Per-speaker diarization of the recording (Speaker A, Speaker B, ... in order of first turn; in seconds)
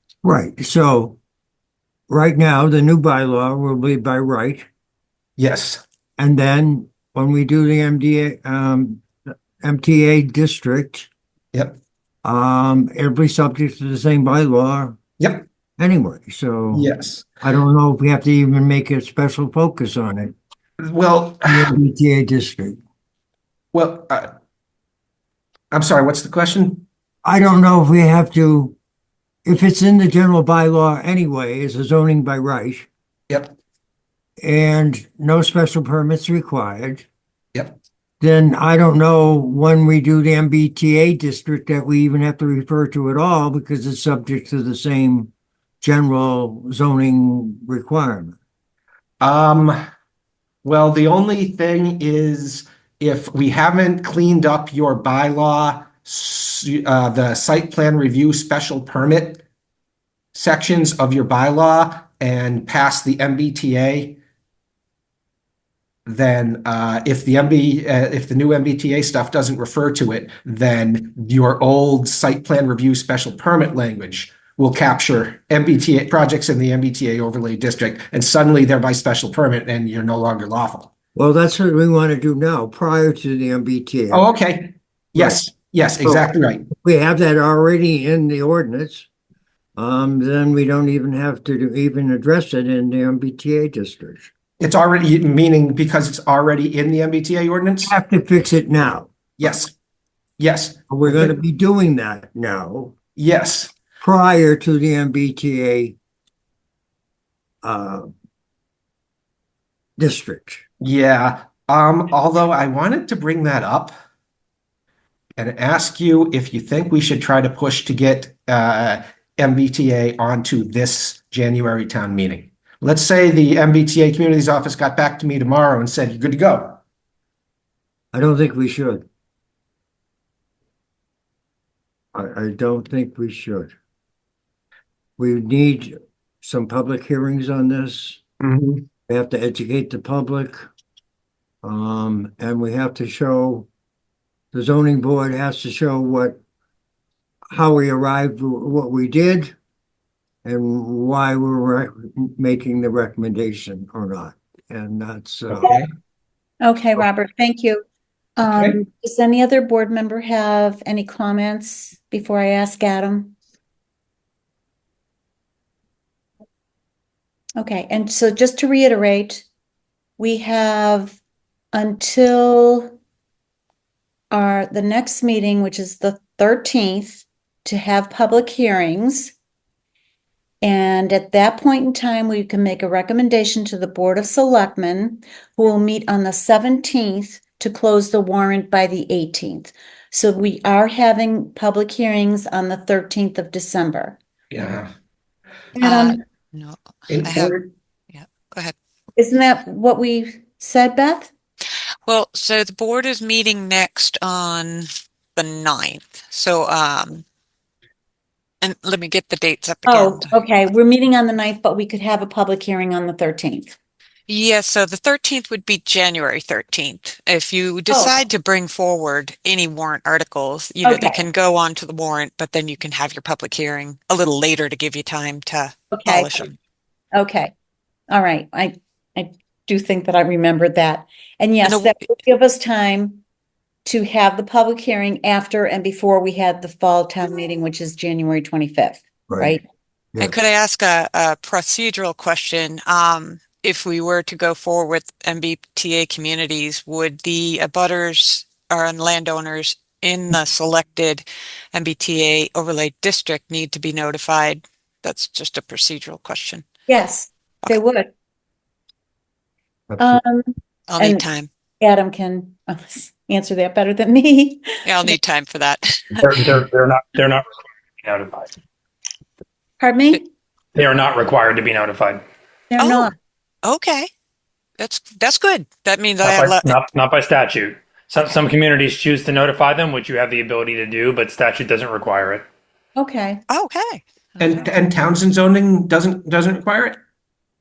Speaker A: 0.2-1.2, 2.1-4.7, 6.2-9.1, 9.6-11.1, 12.2-15.0, 15.8-16.9, 17.4-20.3, 21.4-22.8, 27.2-28.8, 29.4-32.9, 34.4-37.0, 38.2-45.3, 45.8-48.4, 81.1-84.2, 86.0-89.1, 89.8-94.3, 97.8-99.1, 100.9-102.9, 104.0-106.0, 107.6-108.1, 110.0-110.6, 128.1-129.1, 132.1-133.7, 135.2-138.2, 139.1-140.7, 141.6-143.7, 144.5-146.4, 147.5-149.5, 150.4-155.7, 239.3-239.6, 259.9-260.2
Speaker B: 5.4-5.8, 15.2-15.4, 16.7-17.3, 20.9-21.7, 23.7-24.3, 25.7-26.8, 33.3-33.5, 49.2-49.8, 50.6-59.4, 60.3-64.2, 66.0-80.9, 84.1-86.7, 94.6-97.9, 99.4-99.7, 100.4-101.3, 103.2-103.7, 110.8-113.9, 115.4-126.8, 138.4-138.8, 155.5-155.9, 158.4-158.8, 194.5-194.9, 197.1-197.7, 284.4-287.0
Speaker C: 156.6-157.8, 158.4-163.3, 167.6-169.4, 170.2-171.2, 171.7-172.9, 174.3-179.3, 180.6-194.2, 195.8-196.2, 199.2-201.3, 209.8-213.7, 217.9-218.2, 220.8-221.2, 225.9-226.4, 227.1-227.5, 228.1-233.2, 233.8-239.6, 256.9-258.1, 260.0-261.2, 261.8-265.1, 269.8-270.3, 272.7-273.1, 282.9-283.4
Speaker D: 195.8-197.6, 198.1-198.7, 202.1-207.2, 208.6-210.3, 214.3-226.6, 231.6-232.0, 240.2-256.6, 260.9-261.5, 264.8-266.3, 272.8-273.1, 273.6-274.1, 274.8-276.8, 283.5-284.7
Speaker E: 266.2-267.4, 268.0-268.5, 270.7-272.2, 276.2-282.4